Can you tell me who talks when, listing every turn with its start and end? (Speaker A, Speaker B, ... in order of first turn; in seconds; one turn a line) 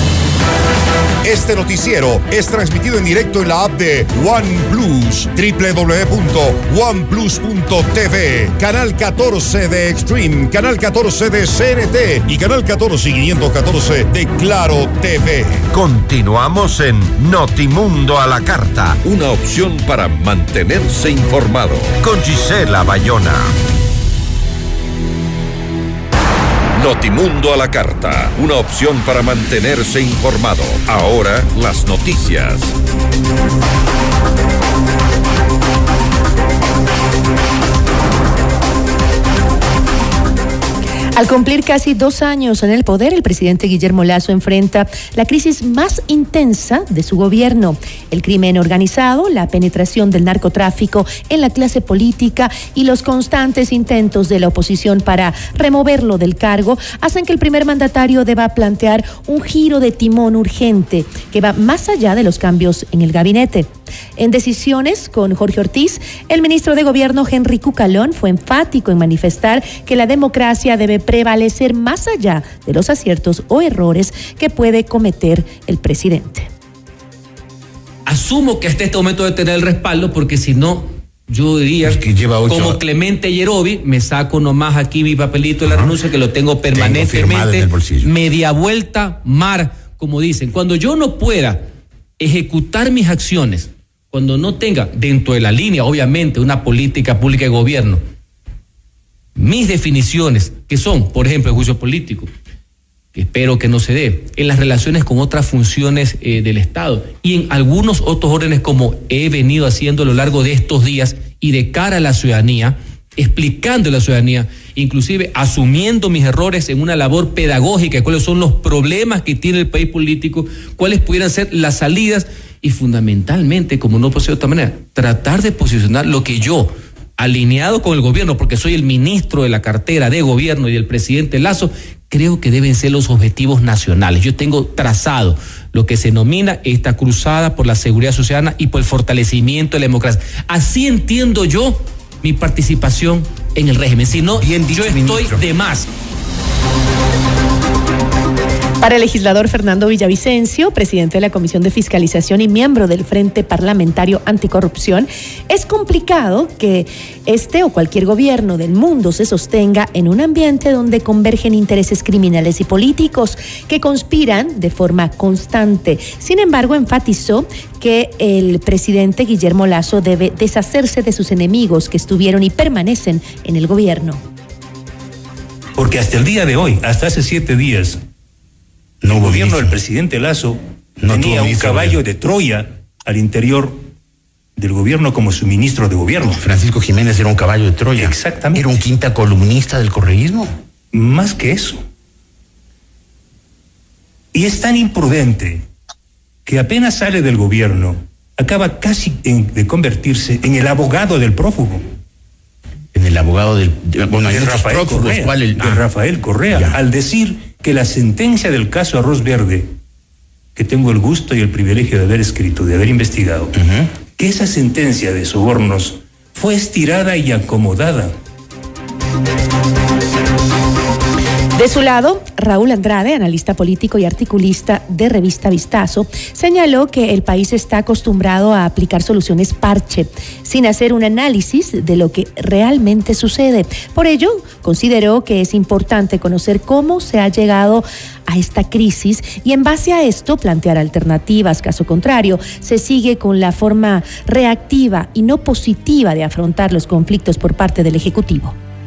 Speaker A: 1.2-15.7
Speaker B: 15.7-23.5
Speaker B: 26.8-32.8
Speaker C: 41.1-76.5
Speaker D: 78.1-91.6
Speaker E: 81.8-82.8
Speaker E: 85.6-86.0
Speaker E: 86.7-88.1
Speaker D: 92.2-98.0
Speaker D: 99.4-102.3
Speaker D: 103.2-145.8
Speaker E: 144.3-145.4
Speaker C: 148.8-174.2
Speaker F: 175.8-178.0
Speaker F: 179.0-183.8
Speaker E: 179.1-179.8
Speaker E: 181.0-182.0
Speaker F: 184.6-186.5
Speaker E: 186.3-190.5
Speaker F: 188.0-188.8
Speaker F: 190.9-191.8
Speaker F: 194.3-195.7
Speaker F: 196.5-201.9
Speaker E: 202.9-205.9
Speaker F: 204.2-209.8
Speaker E: 206.5-206.8
Speaker F: 210.6-213.5
Speaker E: 213.5-213.9
Speaker F: 214.2-218.2
Speaker C: 221.6-248.6